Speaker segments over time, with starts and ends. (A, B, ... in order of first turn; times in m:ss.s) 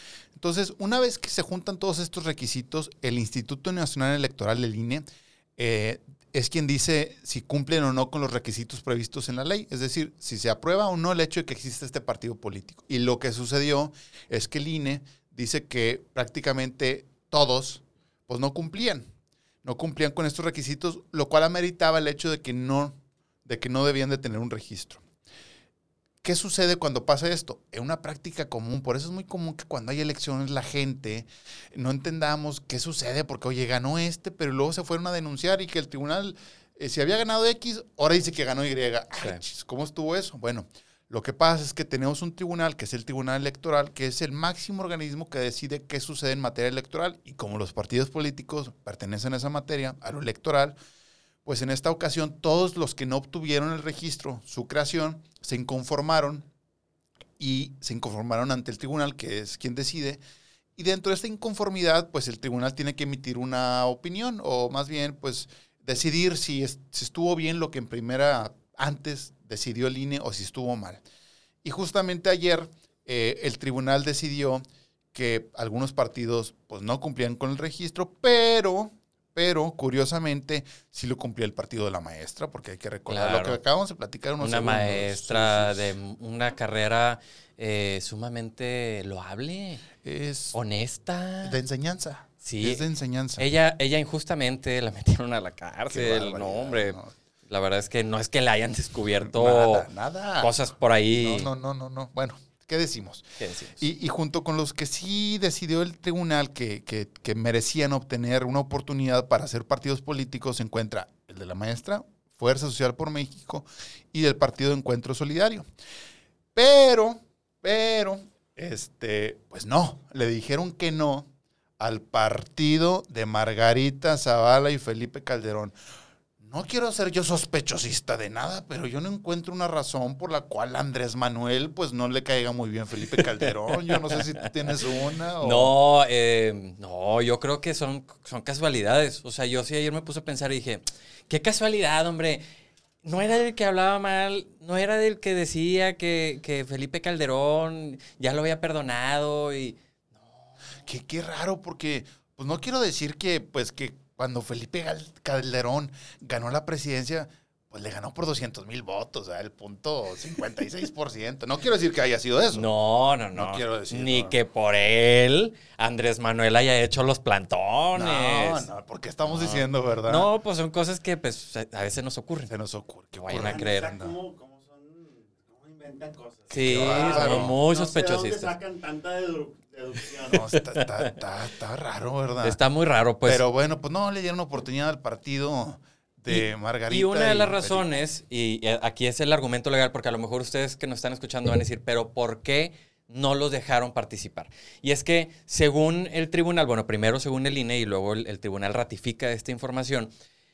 0:00.4-0:05.0 A
0:05.6-0:19.0 A
0:19.6-0:25.0 A
0:26.2-0:50.7 A
0:51.4-0:56.4 A
0:57.4-1:00.2 A
1:00.8-1:11.0 A
1:11.6-1:14.6 A
1:15.1-1:25.8 A
1:23.1-1:23.6 B
1:24.4-1:29.8 B
1:30.0-1:30.6 A
1:30.5-1:31.6 B
1:31.4-1:33.5 A
1:32.4-1:32.8 B
1:33.4-1:39.9 B
1:35.9-1:37.1 A
1:39.2-1:40.5 A
1:40.4-1:41.5 B
1:41.1-1:43.2 A
1:43.4-1:43.8 B
1:43.8-1:55.6 A
1:56.6-2:05.7 A
2:06.4-2:15.7 A
2:13.7-2:14.5 B
2:15.4-2:22.4 B
2:23.0-2:29.8 B
2:30.8-2:42.7 A
2:42.5-2:48.7 B
2:43.3-2:44.4 A
2:47.9-2:50.3 A
2:49.3-2:52.5 B
2:52.5-2:54.1 A
2:53.2-2:54.0 B
2:53.3-3:00.4 C
2:56.5-2:58.5 B
2:56.6-2:57.5 A
3:00.3-3:02.6 A
3:00.5-3:01.1 B
3:02.4-3:03.4 B
3:03.2-3:08.0 A
3:06.3-3:20.1 B